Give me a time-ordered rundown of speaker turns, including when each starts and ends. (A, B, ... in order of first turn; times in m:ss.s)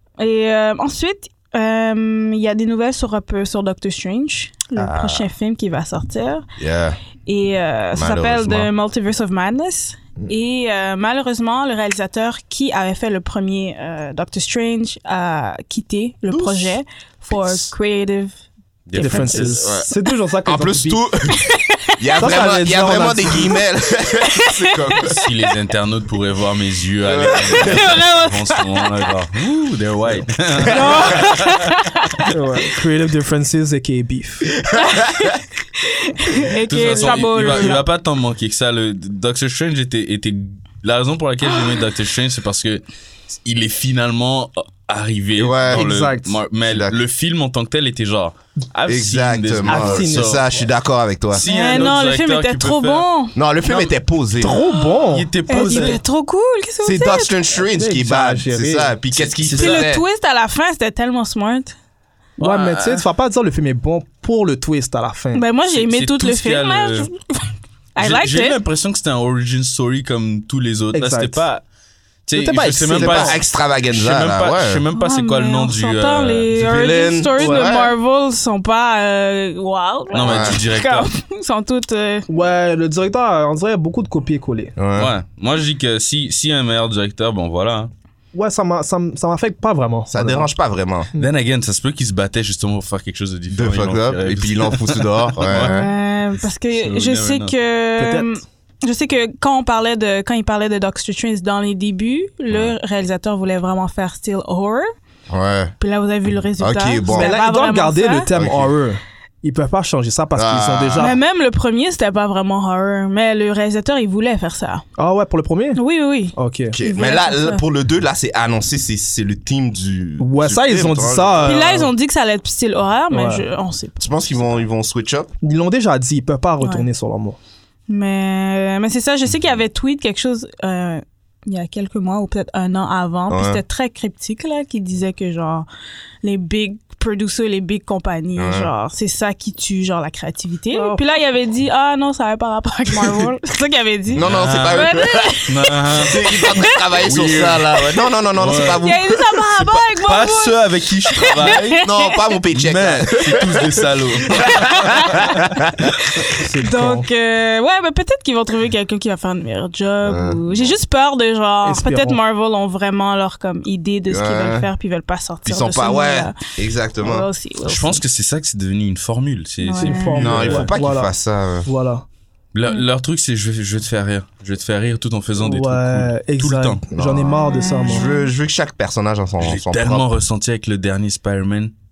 0:00.2-0:06.4 A
0:04.8-0:05.3 B
0:06.6-0:07.0 B
0:07.2-0:18.4 A
0:07.9-0:08.7 B
0:16.3-0:16.8 B
0:18.9-0:19.9 B
0:18.9-0:19.6 C
0:19.0-0:21.0 D
0:19.0-0:19.5 A
0:20.4-0:21.4 B
0:21.4-0:22.0 A
0:22.0-0:25.2 B
0:22.2-0:23.5 D
0:24.2-0:25.2 A
0:25.0-0:31.7 C
0:27.0-0:28.0 B
0:27.4-0:29.0 A
0:30.6-0:31.1 B
0:30.7-0:32.3 A
0:32.3-0:34.5 D
0:34.7-0:35.4 B
0:34.7-0:37.8 A
0:36.7-0:50.5 C
0:45.4-0:45.9 B
0:45.7-0:46.4 D
0:46.6-0:47.0 B
0:48.9-0:51.9 B
0:49.6-0:50.4 D
0:51.3-0:53.0 C
0:51.4-0:53.4 A
0:53.3-0:54.6 B
0:53.6-0:53.9 C
0:54.4-0:56.0 D
0:54.6-0:57.3 A
0:55.1-0:56.0 C
0:56.8-1:00.0 B
0:57.6-0:59.0 D
0:59.1-0:59.9 C
0:59.5-1:01.7 A
1:02.4-1:03.0 C
1:02.4-1:05.4 D
1:05.3-1:08.6 A
1:05.7-1:07.1 C
1:08.0-1:11.6 C
1:10.9-1:11.4 D
1:12.2-1:16.5 C
1:12.4-1:13.4 D
1:12.6-1:14.8 B
1:14.9-1:22.3 A
1:16.5-1:17.9 B
1:17.4-1:17.7 D
1:20.1-1:21.1 C
1:20.1-1:20.6 B
1:22.3-1:24.8 D
1:24.8-1:25.1 B
1:24.9-1:27.9 C
1:28.3-1:30.5 D
1:30.1-1:31.1 B
1:31.2-1:35.8 C
1:33.5-1:35.9 B
1:35.5-1:44.9 A
1:36.7-1:37.5 C
1:38.0-1:38.4 D
1:45.3-1:45.7 B
1:45.8-1:48.3 A
1:46.6-1:47.3 B
1:47.1-1:51.2 D
1:48.3-1:48.7 B
1:50.3-1:51.2 B
1:51.0-1:54.8 A
1:55.0-1:55.8 D
1:55.7-1:57.6 A
1:56.4-1:56.8 D
1:56.7-2:01.6 B
2:00.2-2:01.9 D
2:01.4-2:04.5 A
2:03.1-2:03.4 D
2:04.0-2:05.3 B
2:05.4-2:07.4 D
2:06.6-2:06.9 A
2:07.9-2:15.7 A
2:13.3-2:13.6 B
2:16.2-2:26.7 A
2:18.4-2:18.7 B
2:20.7-2:21.1 D
2:24.1-2:29.6 B
2:24.2-2:24.9 C
2:25.5-2:26.2 C
2:27.0-2:27.7 C
2:28.3-2:28.8 C
2:28.8-2:30.6 A
2:30.0-2:31.7 C
2:31.1-2:32.2 A
2:31.4-2:35.9 B
2:32.5-2:35.4 C
2:34.4-2:35.2 A
2:36.3-2:37.1 D
2:36.6-2:46.4 A
2:40.0-2:40.7 B
2:41.6-2:42.2 D
2:44.1-2:44.7 B
2:45.4-2:47.3 B
2:47.0-2:48.0 A
2:47.6-2:50.8 C
2:49.6-2:50.2 A
2:49.8-2:51.1 D
2:50.2-2:51.7 B
2:51.6-2:52.0 D
2:52.5-2:56.8 C
2:55.4-2:58.1 D
2:56.9-3:00.1 B
2:57.3-2:58.2 A
2:59.4-3:01.7 C